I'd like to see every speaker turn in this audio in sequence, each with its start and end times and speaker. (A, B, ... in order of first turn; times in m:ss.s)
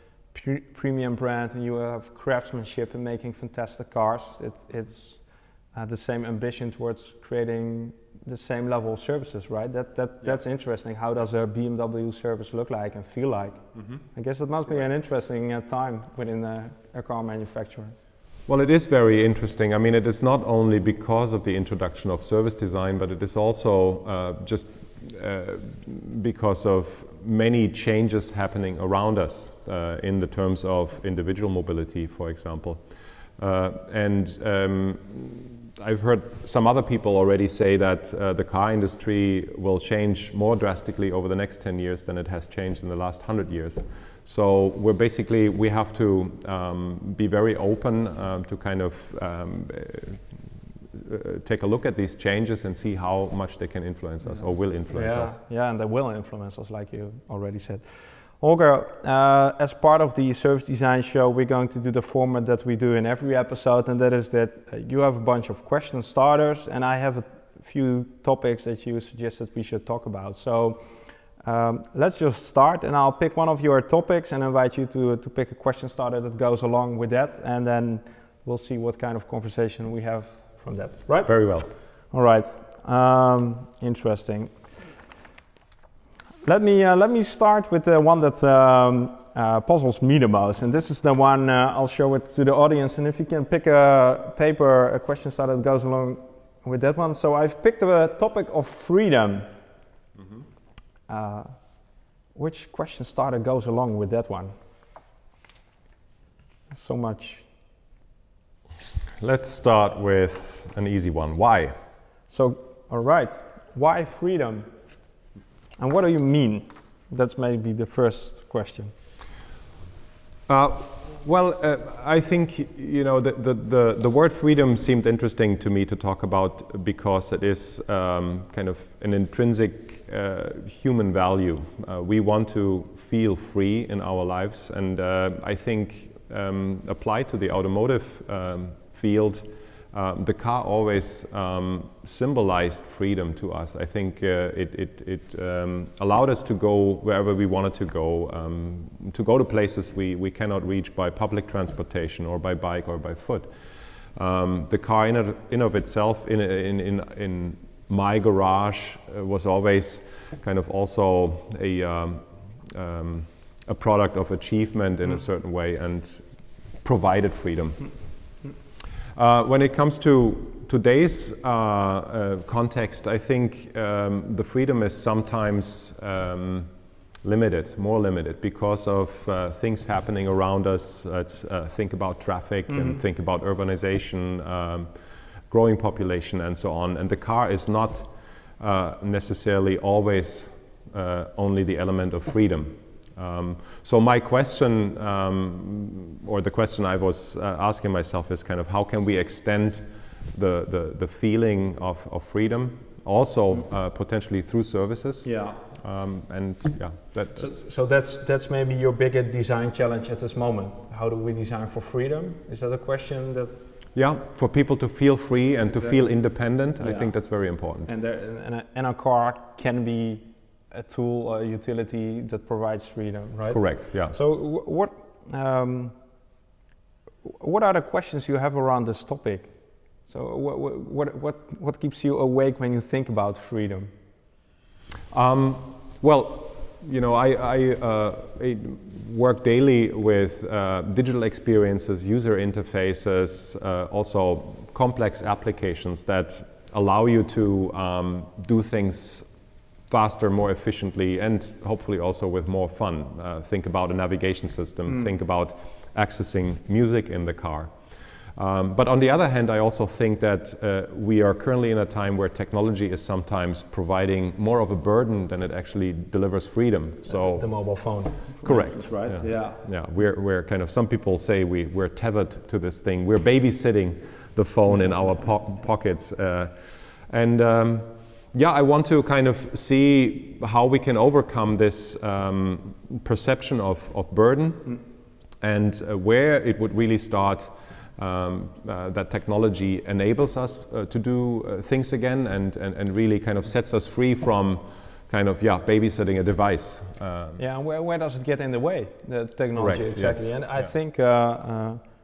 0:00.3-0:05.2 A
0:05.7-0:18.0 A
0:18.5-0:32.8 B
0:33.4-0:50.3 B
0:50.9-0:55.4 B
0:54.9-1:10.8 A
1:11.4-1:21.3 A
1:21.2-1:21.7 B
1:22.1-1:24.5 A
1:26.4-1:39.5 A
1:41.1-1:41.6 A
1:42.3-1:44.5 A
1:46.7-1:47.5 A
1:49.2-1:51.8 B
1:52.3-1:54.7 A
1:55.8-1:58.9 A
2:00.5-2:33.5 B
2:34.2-2:46.2 B
2:46.8-2:48.2 B
2:49.2-3:04.9 B
3:02.7-3:03.0 A
3:05.5-3:27.5 B
3:25.2-3:25.6 A
3:27.4-3:33.6 A
3:34.0-3:37.9 B
3:36.8-3:37.1 A
3:37.9-3:46.0 A
3:43.5-3:44.2 B
3:47.2-3:49.5 A
3:50.1-3:53.9 A
3:55.1-4:09.3 B
4:09.8-4:17.8 B
4:18.4-4:27.8 B
4:27.1-4:29.6 A
4:28.4-4:44.8 B
4:45.4-4:57.4 B
4:57.4-5:01.8 A
4:59.6-5:00.3 B